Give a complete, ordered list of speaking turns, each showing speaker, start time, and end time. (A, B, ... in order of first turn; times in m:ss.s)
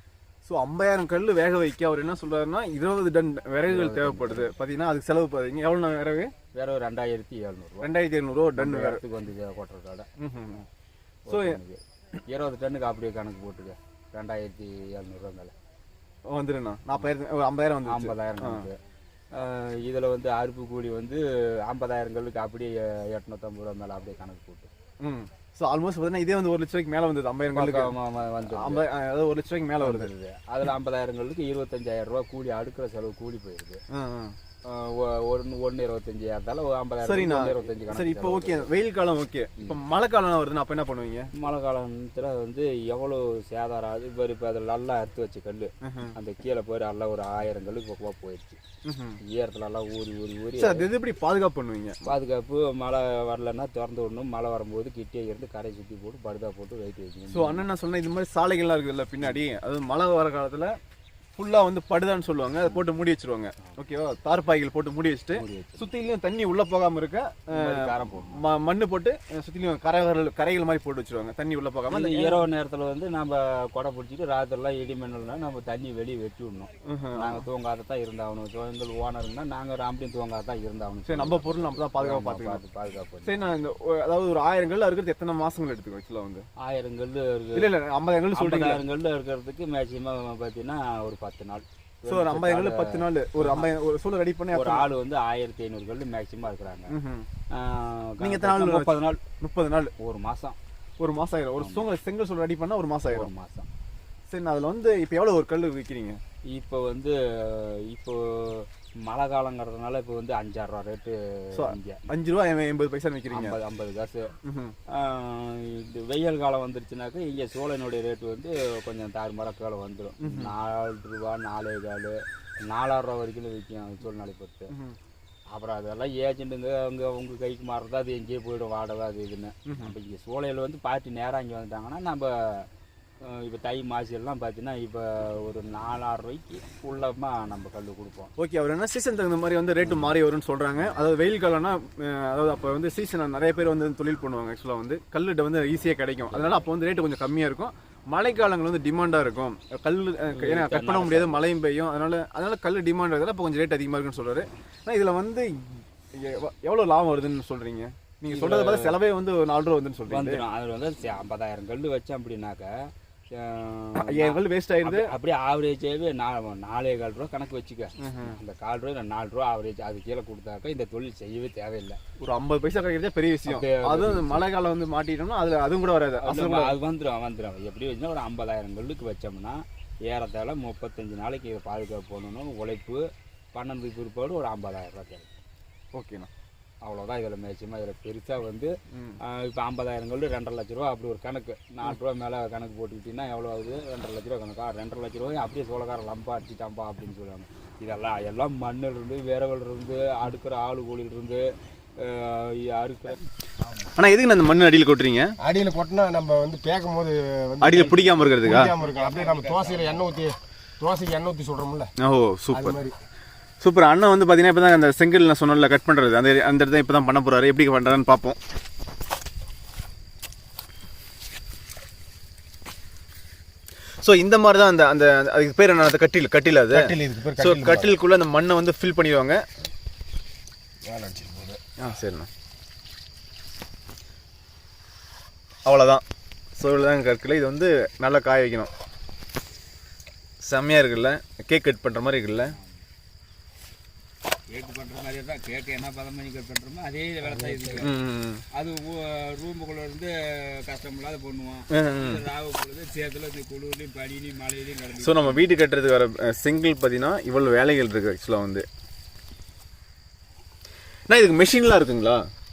0:00.4-0:06.3 A
0:03.6-0:04.5 B
0:06.5-0:07.9 B
0:07.8-0:09.0 A
0:08.6-0:10.1 B
0:10.2-0:10.6 A
0:11.3-0:15.5 B
0:11.3-0:11.6 A
0:16.3-0:18.7 A
0:17.9-0:18.8 B
0:19.3-0:24.7 B
0:25.0-0:27.9 A
0:27.5-0:28.8 B
0:28.5-0:30.1 A
0:29.8-0:33.8 B
0:33.9-0:34.4 A
0:34.6-0:38.7 B
0:37.0-0:41.3 A
0:41.3-0:48.6 B
0:45.8-0:46.1 A
0:48.8-0:49.2 A
0:49.2-0:50.9 B
0:50.6-0:52.1 A
0:52.0-0:57.6 B
0:57.3-1:00.8 A
1:01.4-1:12.4 A
1:05.3-1:05.9 B
1:07.5-1:08.4 B
1:11.9-1:23.4 B
1:16.8-1:17.4 A
1:21.1-1:22.6 A
1:23.2-1:26.4 A
1:26.6-1:27.7 B
1:27.6-1:28.8 A
1:28.3-1:33.7 B
1:32.1-1:34.9 A
1:34.5-1:36.9 B
1:36.9-1:37.3 A
1:37.5-1:39.2 B
1:38.2-1:39.9 A
1:40.0-1:40.6 B
1:41.0-1:43.3 A
1:41.6-1:41.8 B
1:43.1-1:43.7 B
1:44.3-1:46.2 A
1:46.5-1:52.0 B
1:51.5-1:53.6 A
1:53.3-1:54.3 B
1:54.4-1:54.8 A
1:54.9-2:04.7 B
2:00.2-2:00.5 A
2:04.7-2:05.0 A
2:05.5-2:12.7 B
2:09.6-2:10.0 A
2:13.2-2:18.3 B
2:18.4-2:40.4 A
2:19.8-2:20.2 B
2:26.3-2:26.6 B
2:30.3-2:31.5 B
2:38.3-2:39.0 B
2:40.1-2:52.0 B
2:44.0-2:45.1 A
2:48.0-2:48.4 A
2:52.2-2:56.8 A
2:53.5-2:54.5 B
2:56.2-3:03.0 B
3:03.5-3:05.4 B
3:05.9-3:06.3 A
3:06.8-3:08.7 B
3:08.9-3:09.2 A
3:09.2-3:23.3 B
3:23.9-3:25.4 A
3:25.4-3:31.9 C
3:27.6-3:28.7 A
3:28.5-3:30.2 B
3:32.0-3:32.8 A
3:32.5-3:33.0 C
3:33.6-3:38.4 A
3:44.0-3:49.4 A
3:46.7-3:48.0 C
3:50.9-3:51.6 C
3:51.8-3:52.3 A
3:55.6-3:56.0 A
3:56.6-3:58.7 A
4:00.4-4:02.5 A
4:02.5-4:02.8 B
4:04.5-4:08.0 B
4:07.4-4:07.7 C
4:07.8-4:08.4 A
4:08.5-4:15.5 B
4:11.7-4:12.2 A
4:15.0-4:18.7 A
4:21.1-4:22.3 A